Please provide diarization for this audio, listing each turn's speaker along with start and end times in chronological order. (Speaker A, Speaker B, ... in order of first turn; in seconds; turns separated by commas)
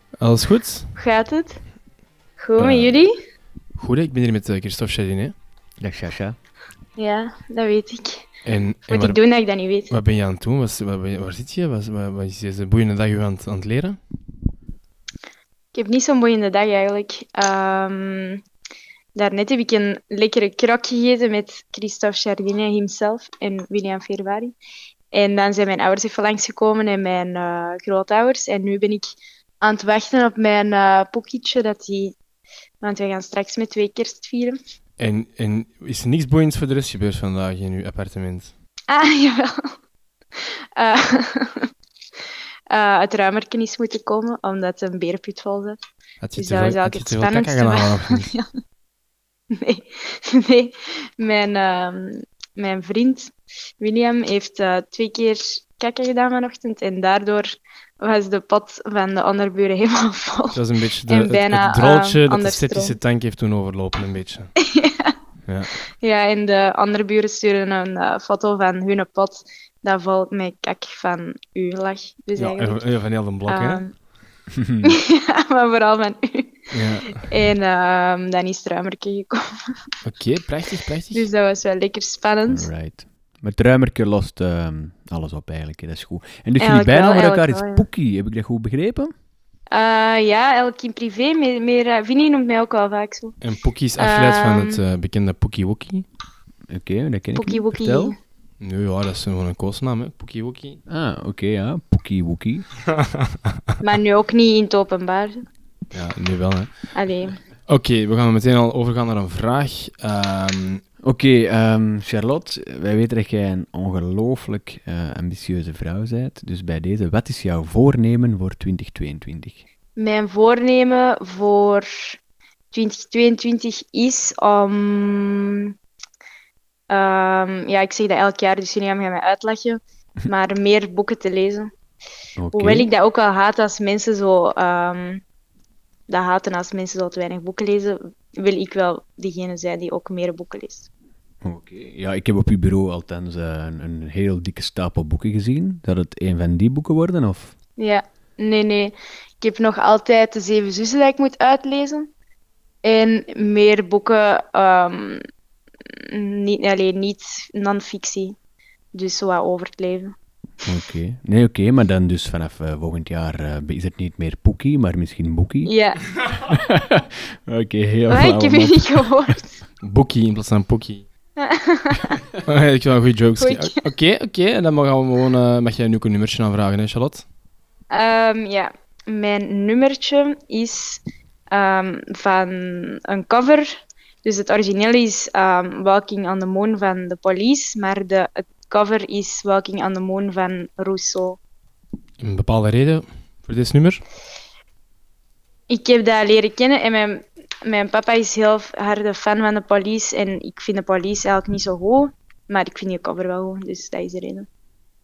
Speaker A: 0.2-0.9, Speaker B: 1.0-1.6, Speaker B: 2.4-3.1, Speaker A: 3.8-5.3, Speaker C: 5.8-6.4, Speaker B: 7.0-8.2, Speaker A: 8.4-9.2, Speaker B: 8.9-9.9, Speaker A: 9.9-14.0, Speaker B: 15.7-18.4, Speaker B: 19.1-24.5, Speaker B: 25.1-32.1, Speaker B: 32.8-34.5, Speaker A: 35.0-38.5, Speaker B: 38.9-39.6, Speaker B: 40.8-41.6, Speaker B: 42.7-45.8, Speaker A: 46.2-48.3, Speaker B: 46.4-48.4, Speaker B: 49.5-63.0, Speaker A: 60.5-64.5, Speaker B: 64.8-65.1, Speaker B: 66.0-74.1, Speaker A: 72.3-73.8, Speaker B: 74.8-76.5, Speaker A: 76.7-77.2, Speaker B: 77.3-79.4, Speaker A: 80.0-81.3, Speaker B: 81.1-82.7, Speaker C: 82.5-89.1, Speaker B: 86.6-87.8, Speaker B: 89.7-93.3, Speaker A: 93.4-96.1, Speaker B: 94.0-94.8, Speaker C: 96.7-98.1, Speaker B: 97.3-98.2, Speaker A: 98.6-100.8, Speaker C: 100.9-102.7, Speaker B: 103.8-105.4, Speaker A: 105.9-107.1, Speaker B: 106.9-107.3, Speaker A: 107.7-110.8, Speaker C: 111.0-119.7, Speaker B: 120.0-122.1, Speaker B: 122.7-125.7, Speaker B: 126.9-131.7, Speaker C: 132.4-132.9, Speaker B: 132.5-135.2, Speaker B: 136.1-140.9, Speaker C: 141.4-147.5, Speaker B: 147.8-152.1, Speaker B: 152.8-155.2, Speaker B: 156.1-158.3, Speaker B: 158.9-160.1, Speaker C: 160.6-165.7, Speaker B: 165.6-166.0, Speaker C: 166.5-169.1, Speaker B: 168.1-169.4, Speaker A: 169.8-171.1, Speaker B: 171.4-172.0, Speaker A: 172.5-177.3, Speaker B: 173.4-173.7, Speaker B: 177.9-191.4, Speaker A: 192.2-194.0, Speaker B: 195.7-204.5